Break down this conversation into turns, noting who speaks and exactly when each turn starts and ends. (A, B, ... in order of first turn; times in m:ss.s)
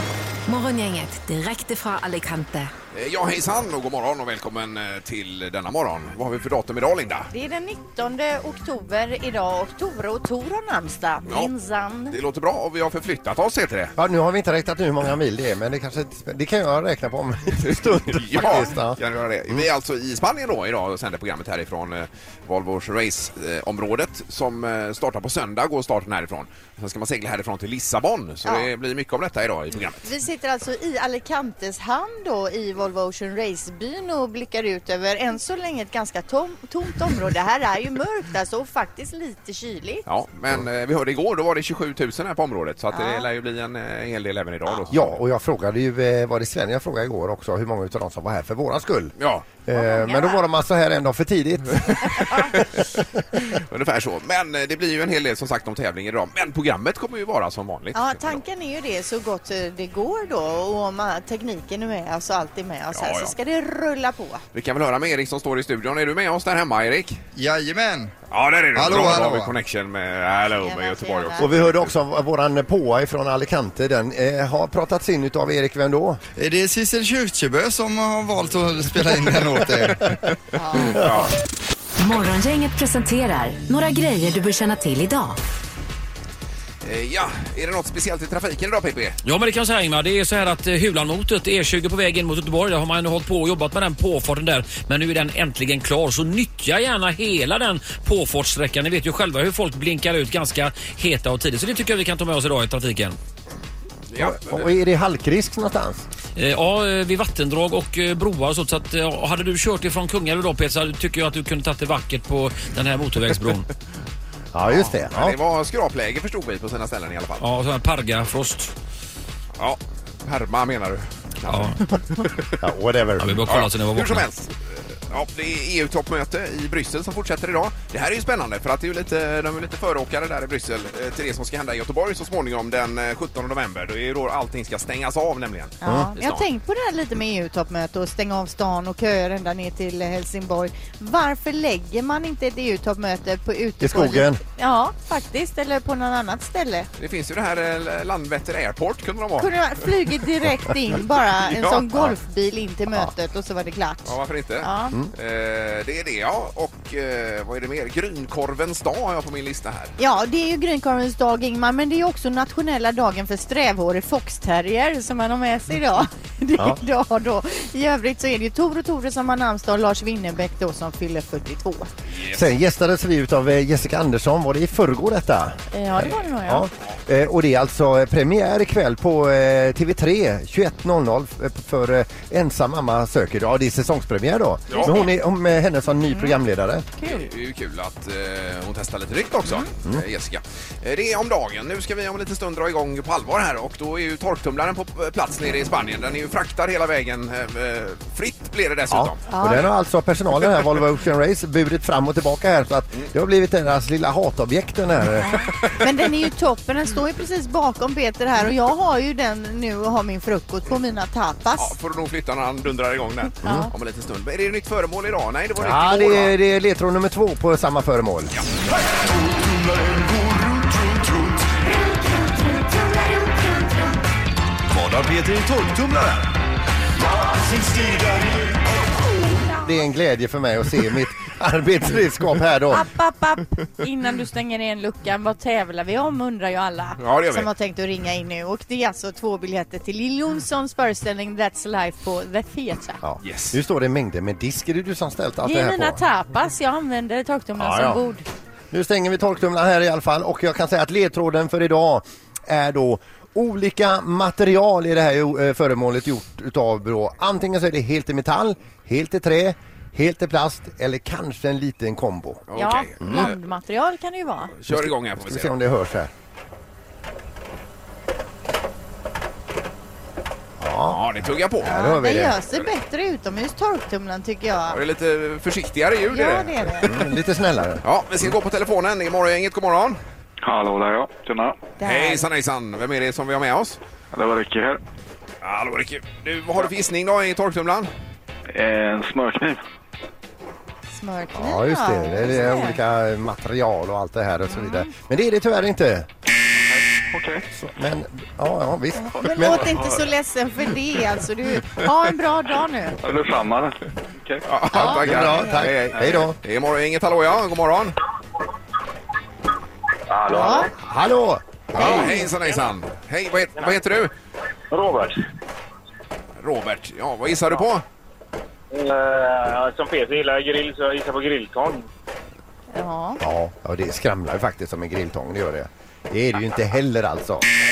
0:00.5-0:02.7 A
0:02.9-0:07.3 B
0:07.3-0:12.2 C
0:11.2-0:11.5 B
0:12.1-0:13.9 B
0:14.0-0:19.0 D
0:17.6-0:30.1 B
0:29.7-0:40.0 C
0:40.0-0:45.1 B
0:42.9-0:43.2 C
0:44.9-0:49.1 D
0:49.2-0:49.4 B
0:49.6-0:52.4 D
0:49.7-0:50.4 C
0:51.8-0:52.6 B
0:53.4-0:58.4 B
0:57.9-1:04.4 C
1:02.9-1:03.3 B
1:04.5-1:07.2 B
1:07.4-1:08.1 E
1:08.3-1:11.9 B
1:08.7-1:09.5 E
1:10.6-1:11.5 C
1:11.4-1:16.2 D
1:16.4-1:20.1 E
1:20.5-1:21.1 C
1:20.9-1:21.3 B
1:22.0-1:25.4 A
1:26.8-1:29.2 B
1:29.2-1:43.2 F
1:44.1-1:44.7 B
1:44.2-1:46.0 D
1:46.4-1:53.6 F
1:54.5-1:55.3 D
1:54.6-1:57.4 B
1:57.4-1:58.7 F
1:59.6-2:02.5 B
2:01.5-2:01.8 F
2:02.6-2:03.4 D
2:03.2-2:04.2 F
2:03.5-2:04.6 B
2:05.1-2:16.5 B
2:15.8-2:26.9 C
2:15.8-2:16.1 D
2:23.8-2:24.4 D
2:27.0-2:29.8 B
2:29.4-2:34.9 C
2:31.5-2:31.8 B
2:34.0-2:40.0 B
2:40.0-2:51.9 C
2:52.1-2:52.4 B
2:52.3-3:06.9 D
2:55.7-2:56.6 C
3:04.7-3:05.0 B
3:07.0-3:19.6 B
3:18.9-3:25.4 D
3:19.3-3:19.6 C
3:25.2-3:31.7 C
3:31.6-3:36.3 B
3:33.4-3:33.7 D
3:35.6-3:38.4 D
3:38.9-3:41.4 G
3:44.7-3:46.2 G
3:47.1-3:48.6 G
3:49.6-3:52.9 D
3:52.7-4:03.0 C
3:57.0-3:57.5 B
4:03.0-4:06.0 D
4:03.2-4:03.6 B
4:05.4-4:08.2 C
4:07.6-4:08.0 D
4:08.7-4:22.4 D
4:22.5-4:23.4 B
4:22.6-4:24.5 C
4:23.0-4:23.3 D
4:24.6-4:25.5 B
4:24.7-4:26.1 D
4:30.6-4:31.0 D
4:30.9-4:31.8 B
4:31.6-4:32.4 D
4:31.6-4:34.8 C
4:34.7-4:36.7 B
4:36.1-4:37.0 C
4:36.8-4:37.8 D
4:37.8-4:40.0 B
4:40.4-4:41.6 H
4:41.8-4:42.2 C
4:41.8-4:43.8 B
4:44.1-4:44.8 H
4:45.4-4:47.9 B
4:48.5-4:49.6 H
4:50.9-4:52.8 C
4:51.3-4:56.1 D
4:54.5-4:54.9 C
4:56.7-4:57.4 H
4:57.5-4:59.8 D
4:59.0-5:03.0 C
4:59.2-5:00.0 H
5:03.0-5:04.4 H
5:04.4-5:08.0 B
5:04.7-5:06.4 D
5:04.7-5:05.7 C
5:10.1-5:10.7 I
5:10.3-5:10.7 C
5:10.8-5:12.2 D
5:11.7-5:14.1 B
5:11.8-5:12.3 C
5:14.7-5:15.2 I
5:16.4-5:17.8 B
5:18.7-5:21.8 I
5:22.7-5:23.2 C
5:23.2-5:27.4 D